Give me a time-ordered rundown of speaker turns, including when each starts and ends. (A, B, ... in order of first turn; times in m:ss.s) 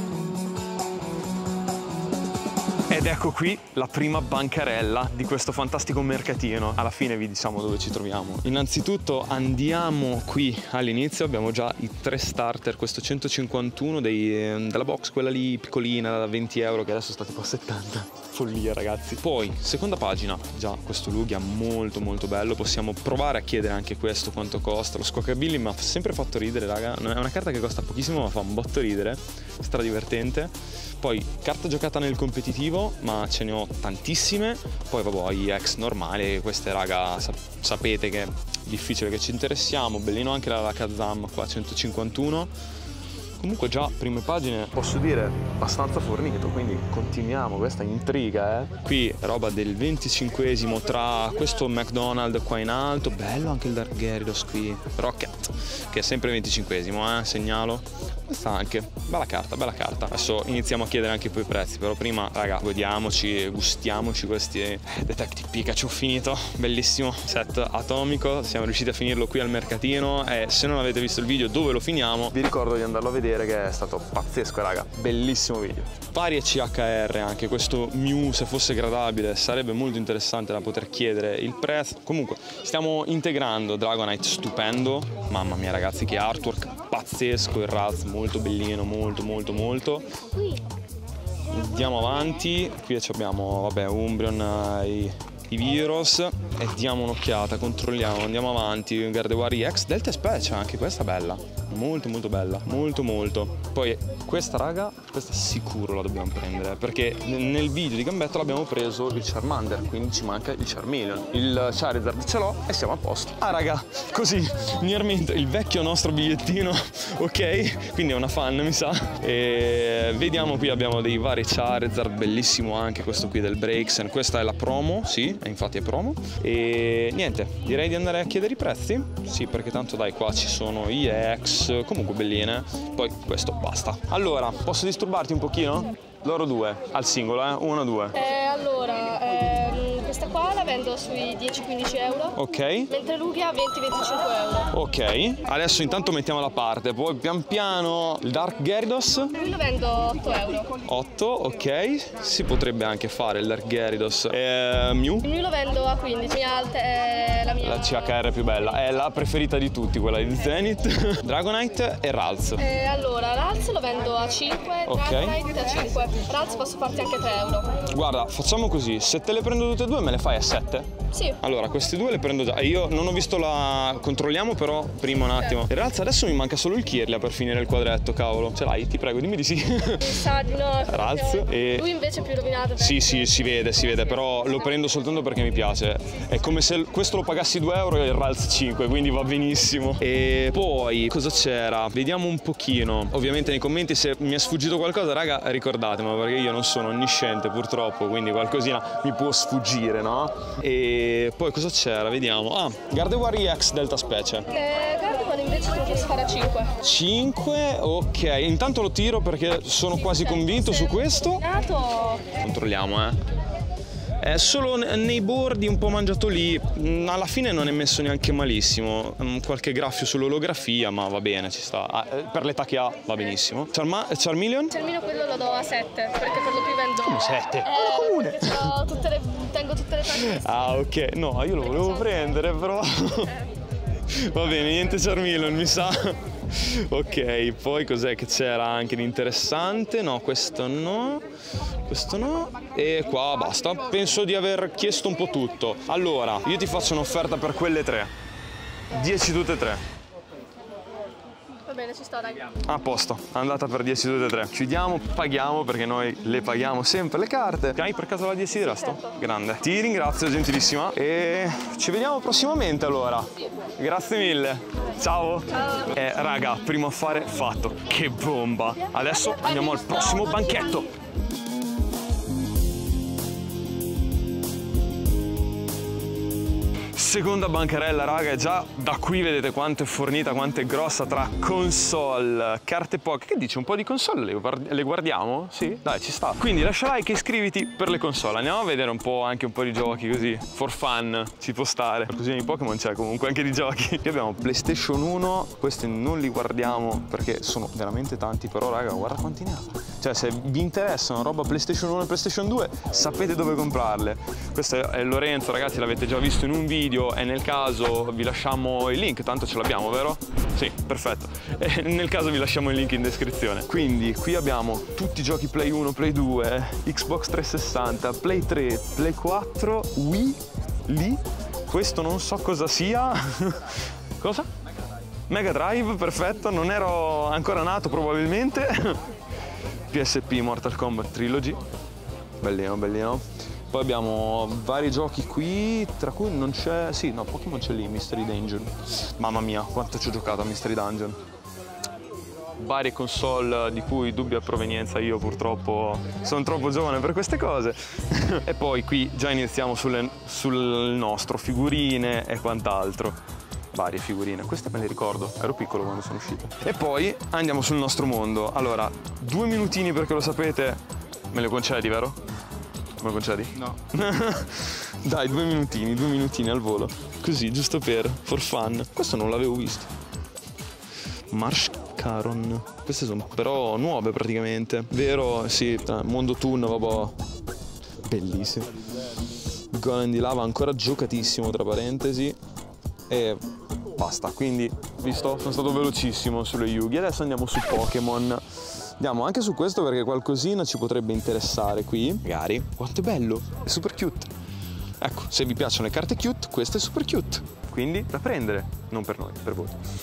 0:02.9-0:42.5 A
0:43.4-1:30.1 A
1:31.5-2:18.2 A
2:18.2-2:22.4 B
2:22.3-2:22.9 A
2:22.9-2:24.7 B
2:24.7-2:29.4 A
2:29.4-2:30.7 B
2:30.8-2:35.3 A
2:35.2-2:38.2 B
2:37.6-2:42.7 A
2:42.6-2:47.8 B
2:44.8-2:45.4 A
2:47.8-3:01.9 A
2:51.1-2:51.4 B
3:00.0-3:03.7 B
3:02.7-3:24.5 A
3:24.5-3:26.7 B
3:26.8-3:31.5 A
3:30.1-3:32.3 B
3:32.3-3:33.2 A
3:34.2-3:44.8 A
3:44.7-3:50.4 B
3:47.0-3:48.8 A
3:50.0-3:53.4 A
3:51.7-3:52.2 B
3:54.1-4:01.3 A
4:01.8-4:08.1 A
4:08.9-4:09.8 A
4:11.6-4:12.5 B
4:12.5-4:30.9 A
4:36.9-5:24.5 A
5:25.3-5:29.0 A
5:29.9-5:31.6 A
5:32.4-5:41.2 A
5:42.6-5:53.2 A
5:53.7-6:02.2 A
6:03.0-6:09.9 A
6:11.3-6:17.2 A
6:18.0-6:18.8 A
6:19.7-6:22.4 A
6:23.1-6:34.3 A
6:35.0-6:39.8 A